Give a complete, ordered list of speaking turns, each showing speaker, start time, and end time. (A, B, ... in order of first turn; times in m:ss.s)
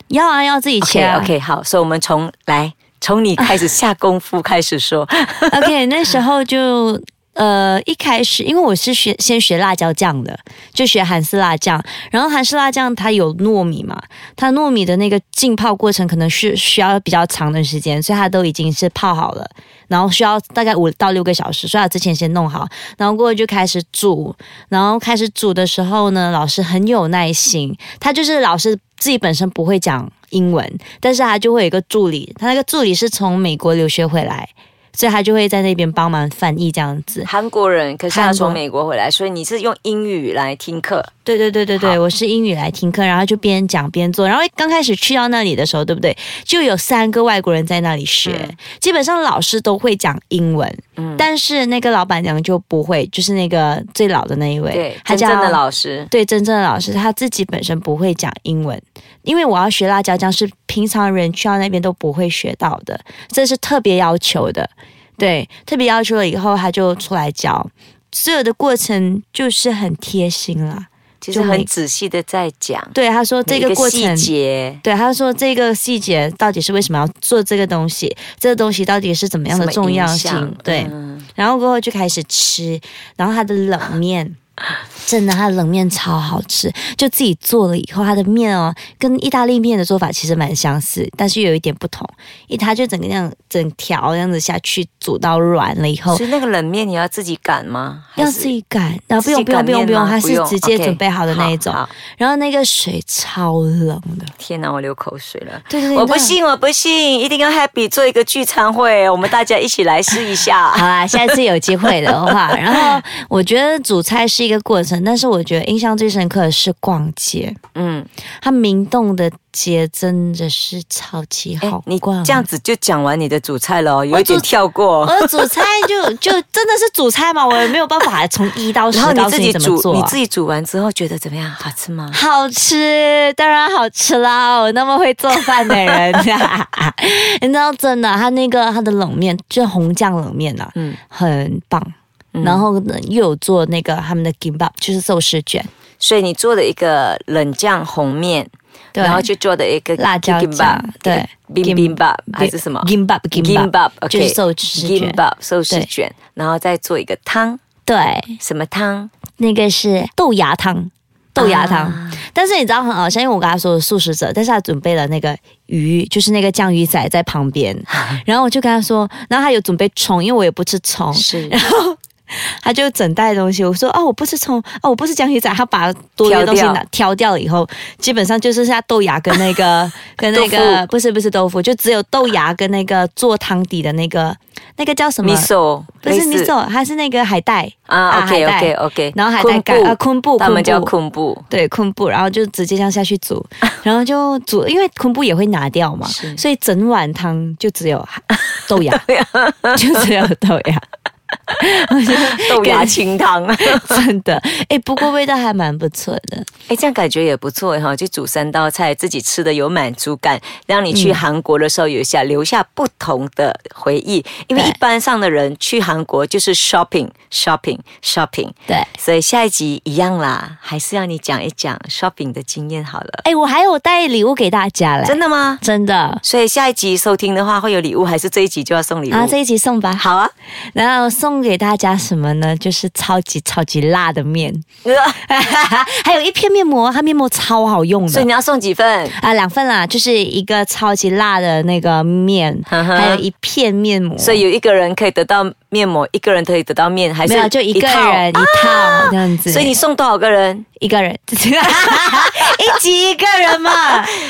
0:00.1-0:01.4 A
0:00.8-0:05.7 B
0:05.5-0:37.3 A
0:37.2-0:41.1 B
0:38.1-0:38.6 A
0:41.3-1:11.7 A
0:48.2-0:48.6 B
0:51.0-0:51.3 B
0:54.7-0:56.1 B
1:11.2-1:13.0 B
1:12.9-1:24.4 A
1:13.5-1:14.8 B
1:19.5-1:21.3 B
1:25.0-1:36.3 A
1:36.1-1:38.6 B
1:38.2-1:44.3 A
1:39.2-1:41.9 B
1:44.4-1:51.4 B
1:45.7-1:46.4 A
1:50.7-1:57.6 A
1:57.8-1:58.1 B
1:58.4-2:02.5 A
2:01.6-2:05.9 B
2:04.1-2:10.2 A
2:08.9-2:12.2 B
2:12.1-2:25.7 A
2:15.7-2:16.2 B
2:22.3-2:22.7 B
2:26.0-2:37.6 B
2:29.0-2:29.3 A
2:30.0-2:35.9 A
2:37.9-2:38.4 A
2:38.4-2:39.1 B
2:39.4-3:05.5 A
2:41.4-2:42.2 B
2:51.2-2:51.6 B
2:56.2-2:56.8 B
3:00.3-3:00.8 B
3:05.2-3:06.5 B
3:06.0-3:10.9 A
3:07.9-3:11.5 B
3:11.5-3:19.1 A
3:16.0-3:16.4 B
3:18.9-3:20.1 B
3:19.7-3:20.8 A
3:21.5-3:23.1 A
3:22.1-3:24.0 B
3:23.6-3:26.5 A
3:26.7-3:43.2 B
3:30.9-3:31.2 A
3:43.2-3:46.2 A
3:45.0-3:45.6 B
3:46.2-3:49.4 B
3:49.1-3:50.1 A
3:50.0-3:50.3 B
3:50.7-3:54.6 A
3:54.8-3:55.2 B
3:55.2-3:58.3 A
3:58.1-3:59.2 B
3:59.1-4:04.5 A
4:02.7-4:03.2 B
4:04.2-4:10.7 B
4:07.2-4:09.8 A
4:10.8-4:14.2 A
4:11.8-4:12.6 B